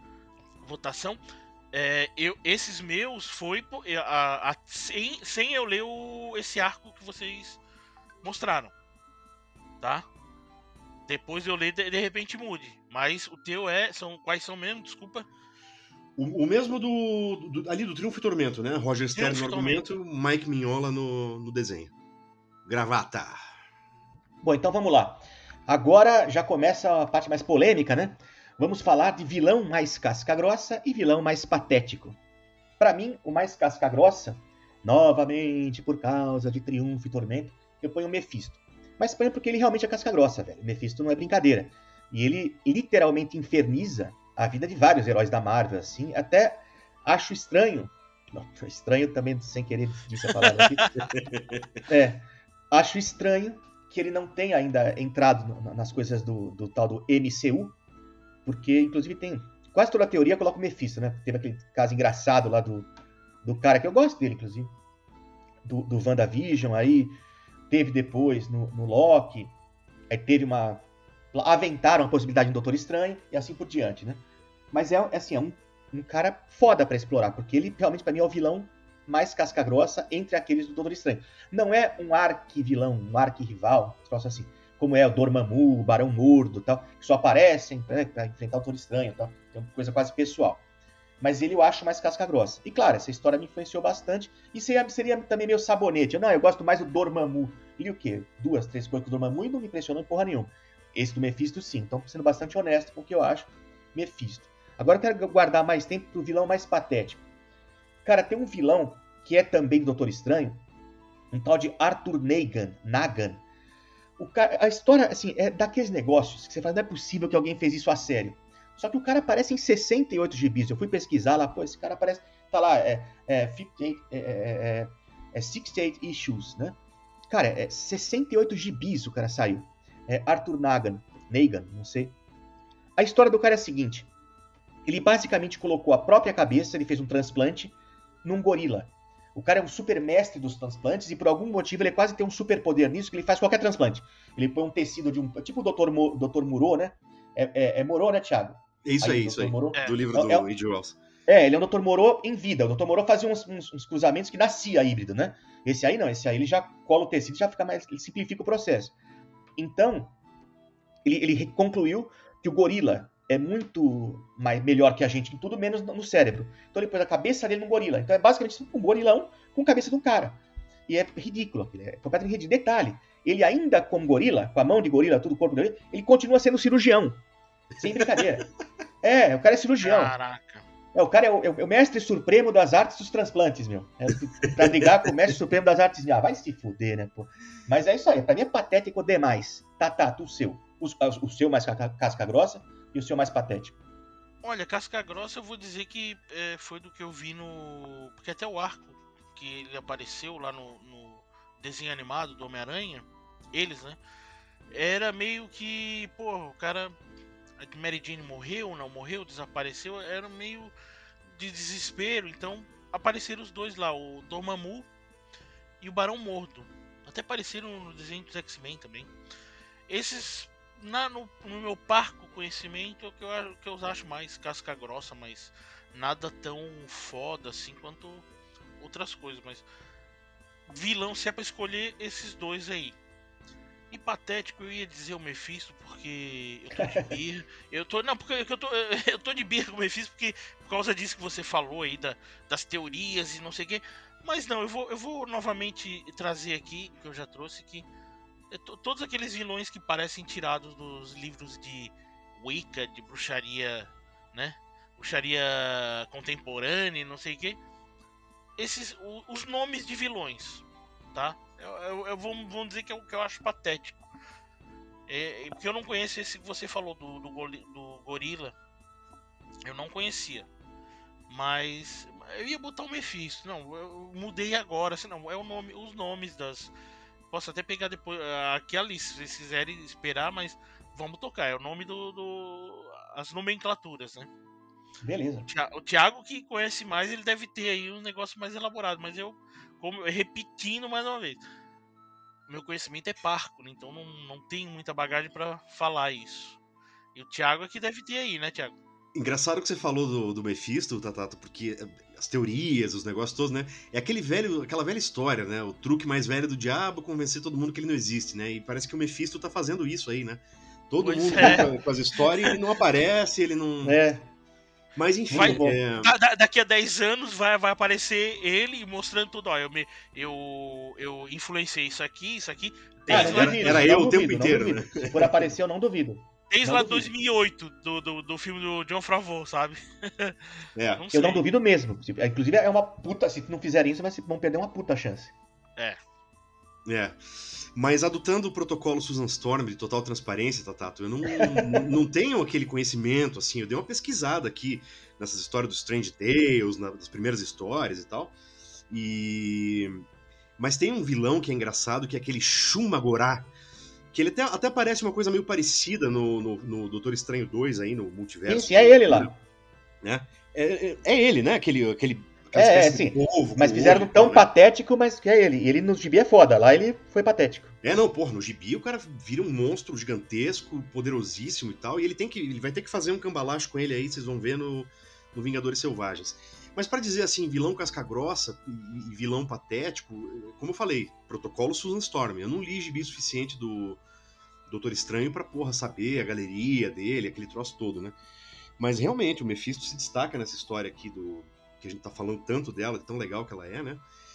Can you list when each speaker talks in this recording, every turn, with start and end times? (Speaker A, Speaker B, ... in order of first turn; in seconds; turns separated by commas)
Speaker A: 0.6-1.2, Speaker A: 1.7-7.6, Speaker A: 8.2-8.7, Speaker A: 9.8-10.1, Speaker A: 11.1-15.3, Speaker B: 16.2-21.9, Speaker A: 19.1-19.8, Speaker B: 22.6-23.4, Speaker C: 24.4-32.2, Speaker C: 32.8-50.8, Speaker A: 50.5-50.9, Speaker B: 51.3-51.6, Speaker C: 51.9-57.7, Speaker C: 58.4-62.9, Speaker C: 63.4-64.7, Speaker C: 65.6-69.5, Speaker C: 70.1-90.6, Speaker C: 91.2-107.2, Speaker C: 108.0-110.6, Speaker C: 111.3-113.4, Speaker C: 114.2-126.8, Speaker C: 127.3-132.1, Speaker C: 132.9-134.1, Speaker C: 134.8-150.5, Speaker B: 148.8-151.0, Speaker C: 151.3-158.9, Speaker C: 159.6-160.1, Speaker C: 161.0-177.2, Speaker C: 177.8-178.5, Speaker C: 179.0-180.1, Speaker A: 179.8-180.6, Speaker C: 180.9-193.8, Speaker A: 194.4-204.0, Speaker A: 204.7-206.9, Speaker A: 207.6-210.7, Speaker A: 211.2-214.9, Speaker A: 215.8-219.1, Speaker A: 219.9-228.2, Speaker A: 228.8-229.6, Speaker A: 230.7-232.9, Speaker A: 233.9-247.8, Speaker C: 236.8-237.2, Speaker A: 248.5-257.6, Speaker A: 258.6-264.0, Speaker A: 265.1-268.5, Speaker A: 269.6-270.5, Speaker A: 271.3-276.7, Speaker A: 277.3-284.3, Speaker C: 285.0-285.5, Speaker A: 285.5-291.4, Speaker A: 292.5-296.6, Speaker A: 297.1-298.8, Speaker B: 299.1-314.0, Speaker A: 311.0-311.7, Speaker C: 313.8-314.3, Speaker B: 314.9-316.1, Speaker C: 315.3-315.8, Speaker A: 315.3-323.9, Speaker B: 323.1-325.5, Speaker C: 323.1-327.1, Speaker A: 326.5-331.4, Speaker B: 330.8-331.0, Speaker C: 331.1-335.3, Speaker B: 336.9-348.3, Speaker C: 341.3-341.9, Speaker B: 348.9-350.0, Speaker B: 350.6-353.5, Speaker B: 354.1-359.3, Speaker C: 358.5-359.4, Speaker B: 360.0-364.4, Speaker C: 362.5-367.7, Speaker B: 367.8-384.0, Speaker B: 384.7-388.2, Speaker B: 388.8-394.0